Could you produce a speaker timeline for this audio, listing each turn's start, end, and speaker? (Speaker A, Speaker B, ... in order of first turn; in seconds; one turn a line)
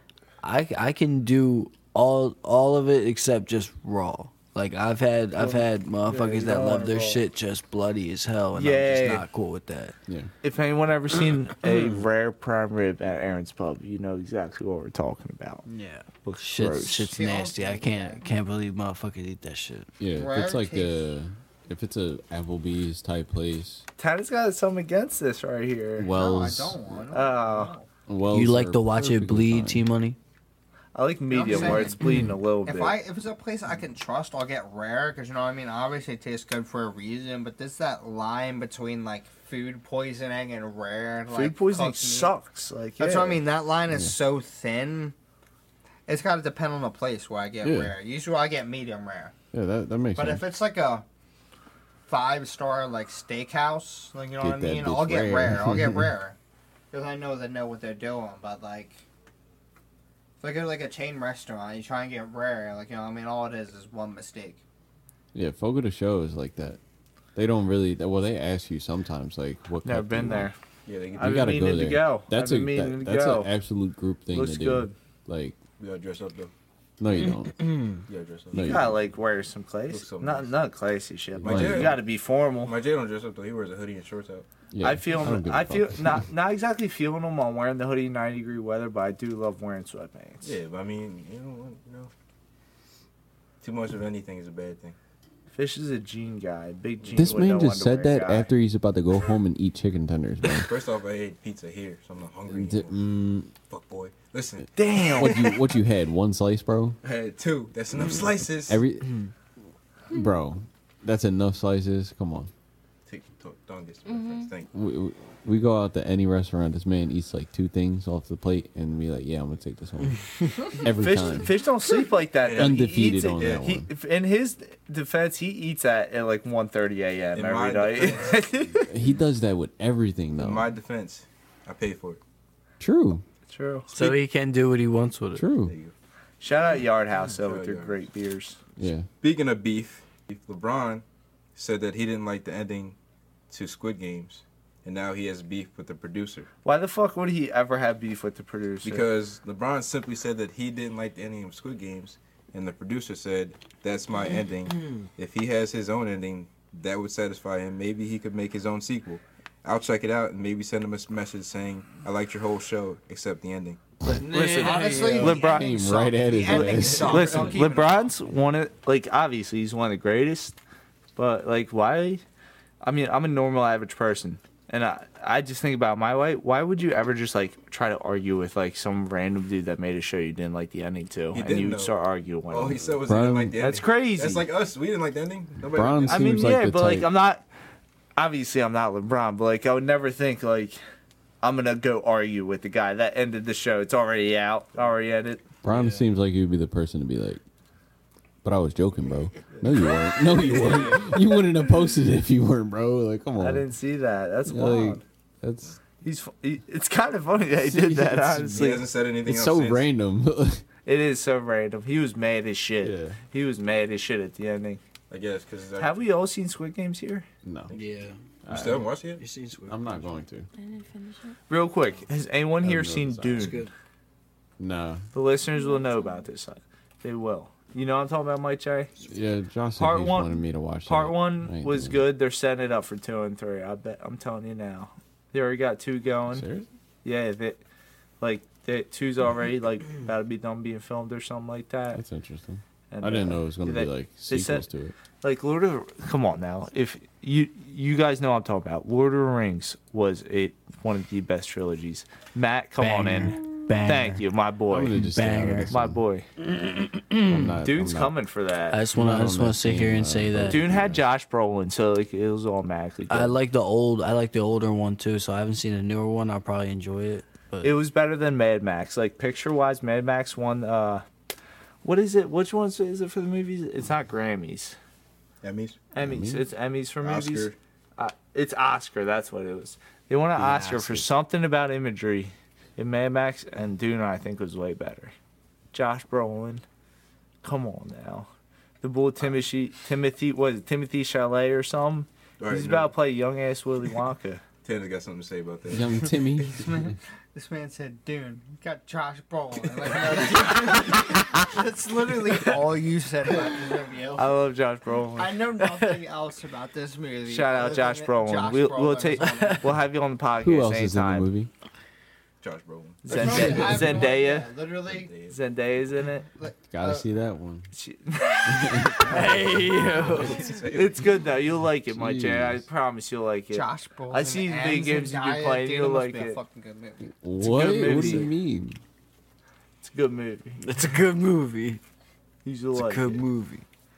Speaker A: 0.4-9.9
Speaker B: 5.4-7.2
Speaker B: 8.5-9.2
Speaker B: 10.4-15.6
Speaker A: 15.7-19.9
Speaker B: 16.2-17.1
Speaker C: 17.0-18.2
Speaker D: 20.0-23.9
Speaker C: 20.1-21.0
Speaker B: 24.0-26.1
Speaker D: 26.0-27.0
Speaker C: 26.1-27.9
Speaker B: 27.1-27.7
Speaker D: 28.1-29.9
Speaker A: 28.3-30.2
Speaker B: 30.9-33.0
Speaker C: 31.3-42.3
Speaker A: 32.0-32.3
Speaker B: 41.3-43.4
Speaker C: 43.0-45.1
Speaker D: 43.9-44.1
Speaker C: 46.1-49.3
Speaker D: 47.6-48.0
Speaker D: 49.5-50.5
Speaker C: 50.2-51.0
Speaker C: 52.1-56.4
Speaker D: 54.4-56.1
Speaker C: 56.9-59.0
Speaker C: 60.4-64.6
Speaker D: 65.3-66.8
Speaker D: 67.3-70.5
Speaker B: 69.8-70.5
Speaker E: 70.9-71.5
Speaker B: 71.2-73.5
Speaker D: 71.2-75.6
Speaker B: 74.3-75.0
Speaker E: 75.8-76.5
Speaker D: 77.0-77.7
Speaker A: 77.6-78.0
Speaker E: 78.1-79.0
Speaker D: 78.5-78.9
Speaker B: 78.6-82.7
Speaker E: 79.9-80.5
Speaker E: 81.4-82.0
Speaker D: 81.4-82.0
Speaker E: 82.6-84.5
Speaker D: 84.7-86.2
Speaker B: 84.8-90.5
Speaker E: 90.4-92.1
Speaker E: 93.6-95.0
Speaker B: 95.5-98.5
Speaker E: 97.0-97.4
Speaker D: 97.2-100.7
Speaker E: 100.6-103.0
Speaker D: 102.5-103.5
Speaker E: 103.7-104.7
Speaker B: 104.8-105.7
Speaker D: 105.2-107.0
Speaker E: 107.0-108.8
Speaker D: 108.7-109.3
Speaker D: 110.1-112.5
Speaker E: 113.1-114.7
Speaker F: 114.1-114.5
Speaker D: 114.7-121.6
Speaker B: 120.8-128.9
Speaker E: 122.4-122.9
Speaker D: 122.6-123.9
Speaker E: 127.3-128.4
Speaker D: 128.9-130.7
Speaker E: 130.4-132.2
Speaker D: 132.8-133.2
Speaker B: 133.5-134.1
Speaker A: 133.9-135.4
Speaker D: 135.3-135.8
Speaker E: 135.7-135.9
Speaker B: 136.4-138.6
Speaker E: 137.3-138.0
Speaker D: 138.8-139.1
Speaker E: 139.2-141.0
Speaker E: 141.6-143.0
Speaker E: 143.5-146.5
Speaker B: 146.7-149.1
Speaker E: 148.8-163.8
Speaker A: 164.1-165.4
Speaker B: 164.2-165.7
Speaker C: 164.4-168.0
Speaker D: 165.3-167.4
Speaker B: 166.5-170.6
Speaker E: 166.6-167.9
Speaker B: 171.2-172.2
Speaker B: 172.8-183.0
Speaker E: 181.3-181.9
Speaker E: 182.5-186.6
Speaker D: 183.1-183.6
Speaker B: 183.6-184.5
Speaker D: 185.6-187.1
Speaker B: 186.1-187.4
Speaker B: 188.2-190.8
Speaker B: 191.4-195.5
Speaker D: 195.6-197.4
Speaker A: 195.7-196.1
Speaker D: 198.4-203.7
Speaker E: 199.5-199.8
Speaker B: 203.4-205.0
Speaker D: 204.5-205.8
Speaker B: 206.0-208.8
Speaker D: 207.6-208.6
Speaker E: 208.5-209.9
Speaker D: 209.3-210.6
Speaker B: 210.9-214.8
Speaker D: 212.8-213.2
Speaker E: 215.1-215.9
Speaker B: 215.8-217.3
Speaker D: 217.4-217.7
Speaker A: 217.7-218.2
Speaker D: 218.4-218.8
Speaker E: 218.5-219.2
Speaker A: 219.2-220.2
Speaker D: 219.7-220.5
Speaker F: 220.5-221.4
Speaker B: 221.5-223.7
Speaker D: 222.6-223.6
Speaker A: 223.4-223.7
Speaker D: 224.6-225.0
Speaker B: 225.1-228.9
Speaker F: 225.5-226.2
Speaker D: 229.1-232.0
Speaker B: 229.8-236.4
Speaker D: 236.3-236.7
Speaker B: 237.0-237.6
Speaker B: 238.2-242.0
Speaker D: 241.9-244.9
Speaker B: 242.9-244.7
Speaker B: 245.2-254.9
Speaker A: 252.8-254.2
Speaker D: 254.7-256.0
Speaker A: 255.0-255.7
Speaker B: 255.7-256.3
Speaker A: 256.6-257.4
Speaker D: 257.2-258.1
Speaker B: 257.6-258.8
Speaker A: 258.7-260.6
Speaker D: 258.9-261.0
Speaker B: 260.5-263.4
Speaker A: 263.1-267.7
Speaker B: 267.6-271.0
Speaker B: 271.8-274.8
Speaker E: 275.4-275.9
Speaker B: 275.9-285.1
Speaker D: 276.0-276.4
Speaker E: 277.0-277.6
Speaker D: 280.4-281.1
Speaker B: 285.7-286.6
Speaker B: 287.4-288.3
Speaker B: 288.8-294.4
Speaker E: 292.4-292.9
Speaker E: 294.6-296.1
Speaker D: 295.7-297.0
Speaker C: 296.4-304.4
Speaker E: 299.8-300.3
Speaker B: 304.2-305.4
Speaker C: 305.2-309.7
Speaker B: 307.3-311.3
Speaker D: 310.4-311.5
Speaker E: 312.4-313.4
Speaker B: 313.0-314.5
Speaker C: 313.1-315.1
Speaker D: 313.2-313.9
Speaker E: 314.9-315.4
Speaker B: 315.3-316.3
Speaker C: 316.4-317.1
Speaker D: 316.7-317.7
Speaker B: 317.7-319.3
Speaker D: 318.5-320.2
Speaker A: 319.1-320.4
Speaker E: 319.9-321.1
Speaker B: 320.5-326.4
Speaker D: 321.9-322.7
Speaker C: 323.5-327.1
Speaker D: 327.2-328.8
Speaker B: 327.4-328.3
Speaker C: 327.7-328.2
Speaker B: 329.8-330.8
Speaker A: 330.6-331.8
Speaker B: 332.4-333.2
Speaker A: 332.8-333.6